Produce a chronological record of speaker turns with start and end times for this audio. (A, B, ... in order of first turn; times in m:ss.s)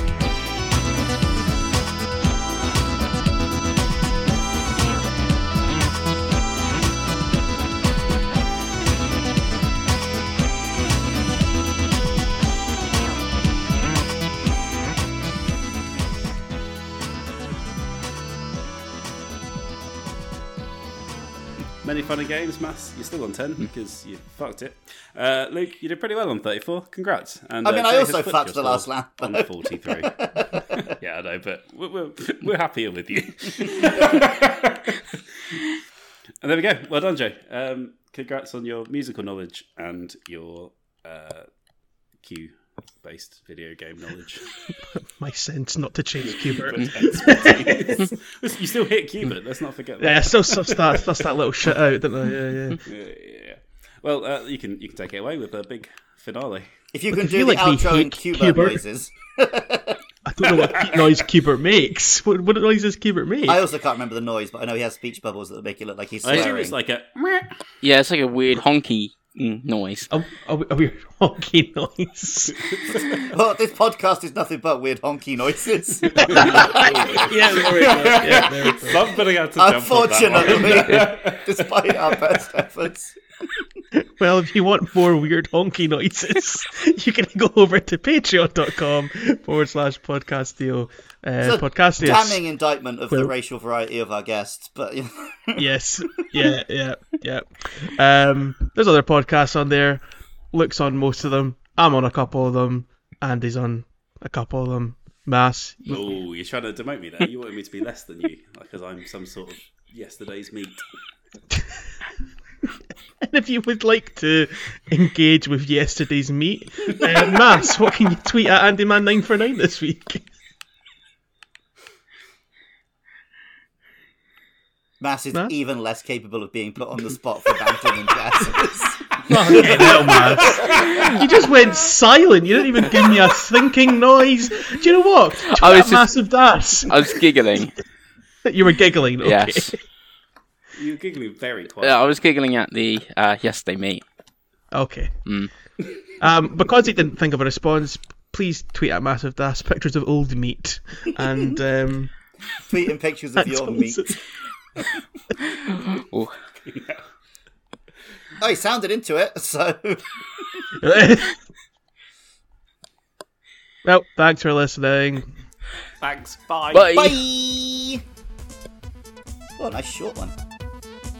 0:21.8-0:30.1 A
0:27.6-0:30.9 B
0:31.0-0:34.9 A
0:36.4-0:41.5 A
0:42.2-0:44.5 A
0:45.0-0:48.0 C
0:46.2-0:51.1 A
0:50.0-0:52.8 C
0:52.8-0:56.7 A
0:56.9-1:00.0 B
0:57.1-0:58.8 C
1:00.3-1:03.6 C
1:00.5-1:01.0 A
1:03.5-1:06.8 B
1:06.2-1:07.5 A
1:07.8-1:10.1 D
1:10.1-1:12.8 C
1:13.2-1:18.7 B
1:16.1-1:22.2 A
1:16.2-1:19.1 C
1:19.6-1:23.2 B
1:20.5-1:20.8 C
1:23.9-1:32.4 C
1:31.4-1:35.6 B
1:35.6-1:46.1 C
1:45.9-1:50.8 A
1:53.2-2:00.3 C
2:05.0-2:11.1 B
2:09.2-2:17.3 C
2:09.6-2:11.2 A
2:15.5-2:16.1 D
2:16.9-2:17.7 D
2:18.4-2:19.8 C
2:19.2-2:19.7 D
2:20.8-2:22.1 A
2:21.8-2:24.0 D
2:24.7-2:25.1 C
2:26.2-2:32.1 C
2:32.7-2:34.2 B
2:33.4-2:34.2 C
2:35.5-2:36.3 D
2:36.6-2:37.0 A
2:38.4-2:40.0 B
2:40.8-2:41.4 C
2:43.8-2:45.3 C
2:46.0-2:47.0 A
2:46.7-2:47.2 D
2:46.9-2:48.0 B
2:49.6-2:50.3 B